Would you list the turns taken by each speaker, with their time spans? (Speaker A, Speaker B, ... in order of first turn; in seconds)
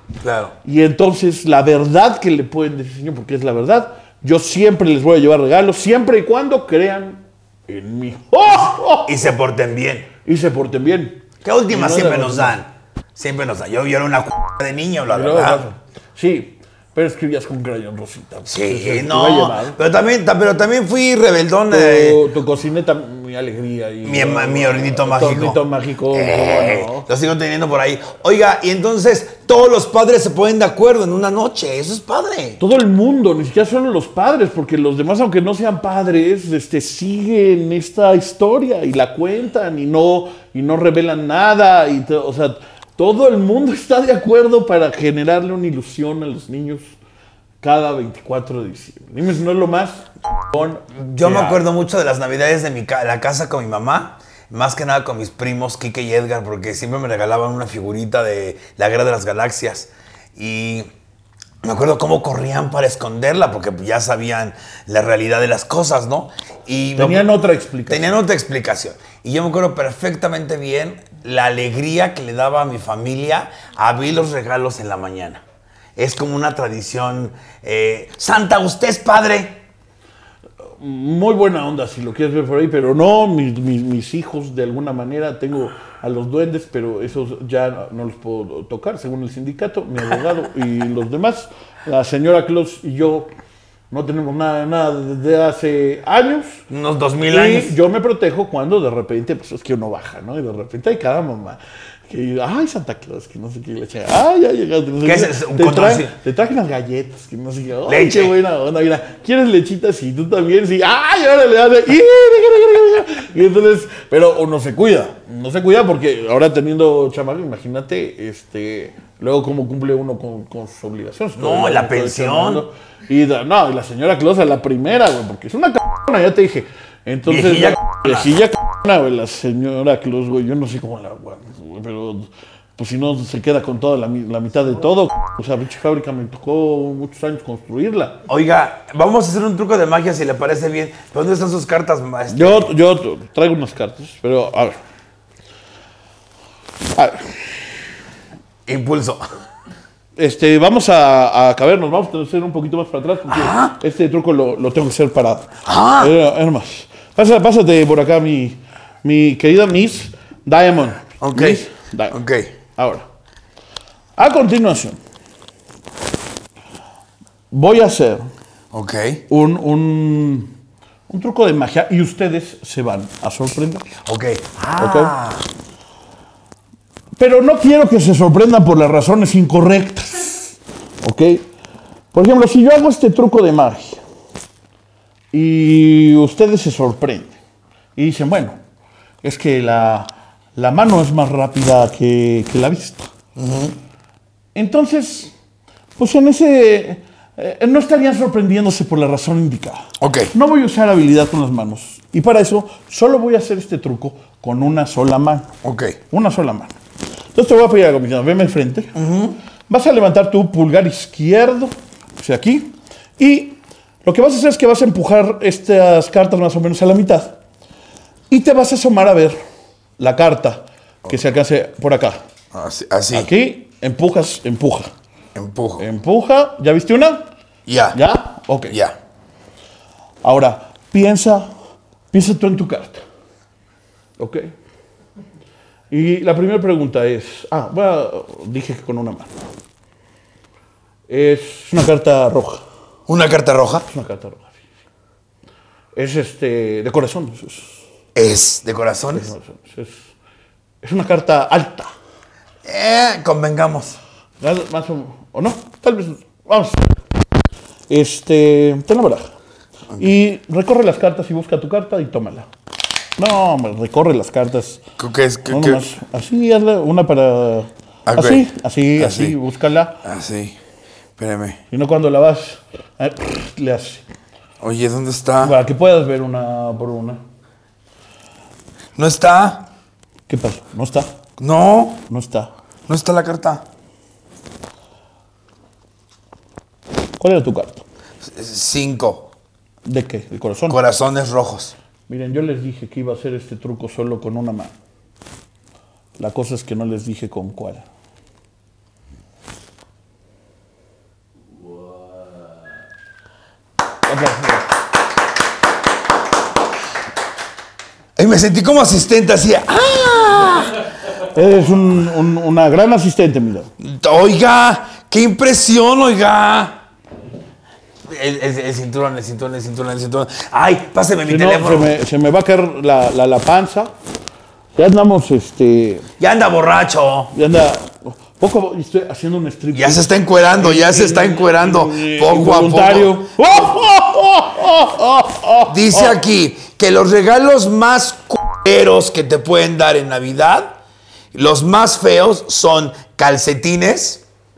Speaker A: 0.2-0.5, 9.0-10.1, 11.4-15.6, 18.4-22.2, 24.0-25.6, 26.1-32.6, 51.0-60.9, 61.6-67.3, 67.9-75.4, 76.0-79.6, 96.7-97.7, 105.0-106.1, 107.9-108.3, 121.4-122.6, 127.2-128.3, 138.3-142.7, 148.7-149.2, 153.3-153.8, 155.6-156.1, 161.2-162.5, 168.7-169.2, 174.0-175.4, 193.3-193.7, 200.0-200.3, 205.6-206.0, 208.9-209.3, 222.5-223.3, 225.3-225.8, 227.7-228.0, 228.7-228.9, 243.1-243.9, 248.1-249.3, 252.6-254.0, 265.0-265.8, 268.1-268.4, 269.0-269.4, 270.0-270.6, 271.2-271.6, 274.6-275.5, 278.9-279.6, 281.4-282.0, 282.9-283.6, 288.2-289.3, 290.7-291.7, 308.1-310.8, 313.8-316.8, 318.1-321.9, 326.2-327.3, 329.7-333.2, 335.7-340.7, 341.3-344.2
Speaker B: 0.6-9.1, 10.2-12.6, 15.1-19.8, 21.7-27.1, 32.6-46.9, 47.6-51.6, 67.0-68.1, 80.8-93.3, 93.9-96.6, 97.3-138.2, 142.3-144.8, 146.9-147.6, 150.2-162.2, 162.7-163.1, 164.2-165.0, 167.5-168.2, 169.3-170.5, 171.1-173.9, 174.8-175.1, 177.2-181.4, 182.1-184.0, 185.3-187.3, 187.9-188.6, 189.2-193.1, 194.5-195.3, 196.0-205.5, 206.1-206.8, 207.3-208.9, 209.7-217.4, 218.3-219.4, 220.0-222.2, 223.1-224.9, 225.8-227.2, 227.9-228.7, 230.2-231.5, 232.1-233.0, 234.2-234.5, 235.9-239.3, 241.1-242.6, 243.9-244.7, 245.9-247.8, 249.1-250.1, 250.8-251.9, 254.4-256.9, 257.9-259.3, 260.0-262.5, 263.2-264.8, 265.5-270.0, 271.7-274.0, 275.4-277.2, 280.3-281.1, 282.1-282.5, 287.2-287.8, 289.8-290.8, 292.1-294.7, 296.2-297.8, 304.1-304.7, 311.3-313.7, 321.2-323.9, 324.8-326.1, 327.3-336.1